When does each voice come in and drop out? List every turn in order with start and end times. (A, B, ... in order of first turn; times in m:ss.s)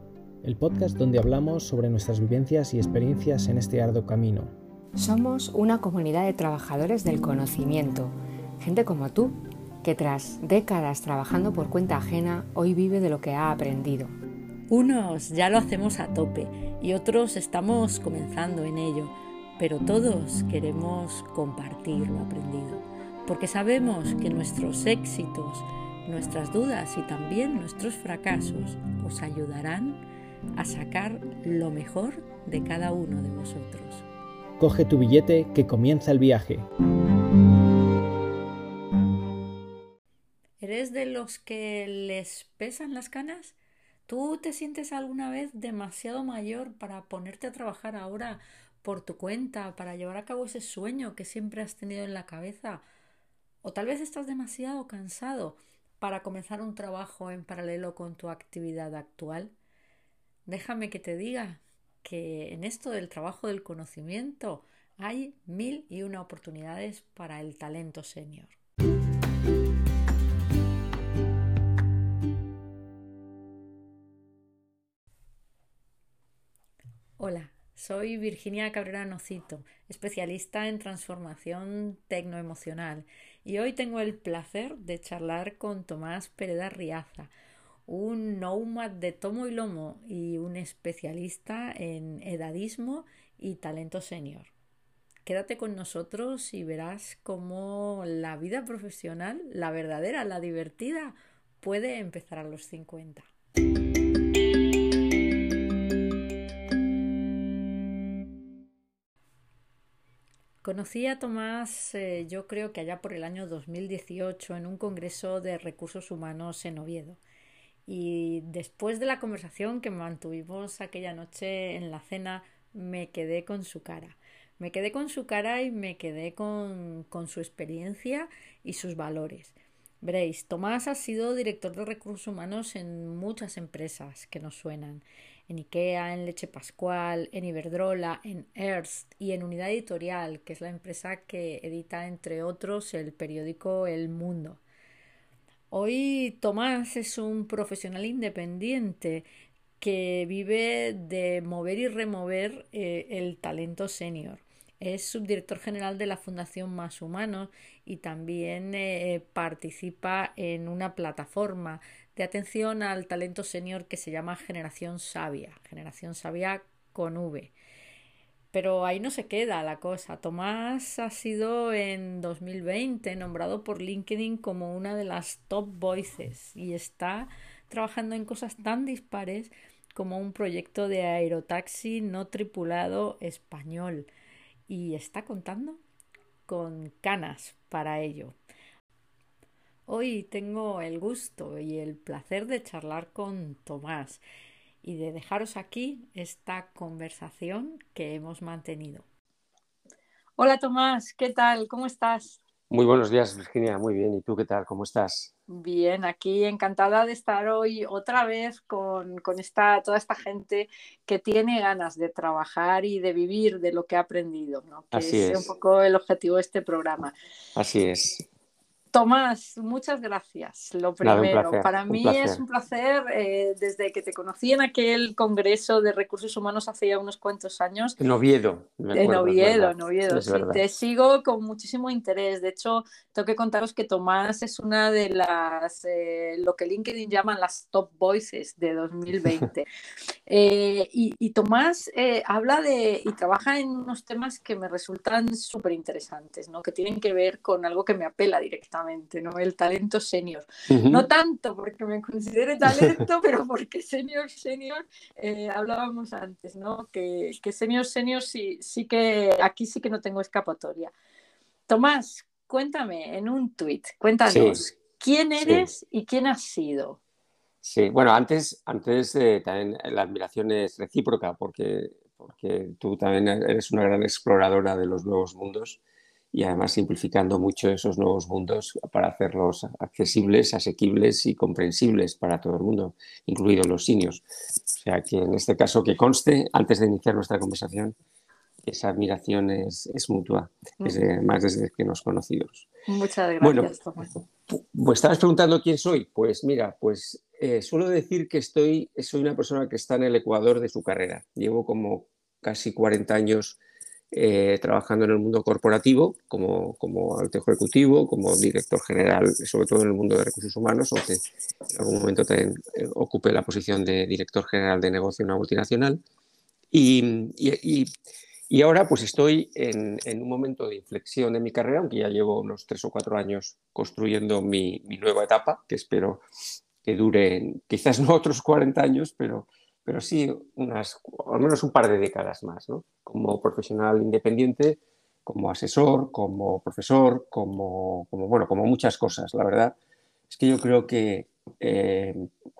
0:00.4-0:04.5 A
0:05.0-0:14.2 B
0:14.7-0:30.0 C
0:30.6-0:34.0 C
0:34.6-0:36.7 A
0:40.6-0:43.6 C
0:44.1-0:52.8 C
0:53.6-0:59.5 C
1:00.5-1:08.6 C
1:17.2-1:27.3 C
1:27.9-1:34.5 C
1:35.3-1:43.2 C
1:50.6-1:57.2 C
1:57.9-2:24.6 C
2:25.7-2:29.3 C
2:29.8-2:47.5 C
2:48.5-3:04.1 C
3:04.7-3:05.8 C
3:06.5-3:08.4 C
3:09.9-3:14.2 C
3:14.8-3:19.0 C
3:20.4-3:22.4 C
3:22.7-3:25.3 D
3:25.5-3:37.1 C
3:34.9-3:35.5 D
3:37.6-3:38.2 D
3:38.9-3:48.0 C
3:41.0-3:42.4 D
3:48.0-3:50.6 D
3:48.9-3:59.7 C
4:00.3-4:20.9 C
4:10.7-4:11.0 D
4:21.7-4:27.0 C
4:24.3-4:24.6 D
4:25.4-4:25.7 D
4:27.6-4:35.8 D
4:36.3-4:48.0 D
4:48.6-4:52.7 D
4:52.9-4:54.1 C
4:53.4-4:53.8 D
4:54.5-5:03.6 D
5:04.1-5:16.0 D
5:16.7-5:17.9 D
5:18.5-5:26.2 D
5:26.8-5:39.8 D
5:40.3-5:42.3 D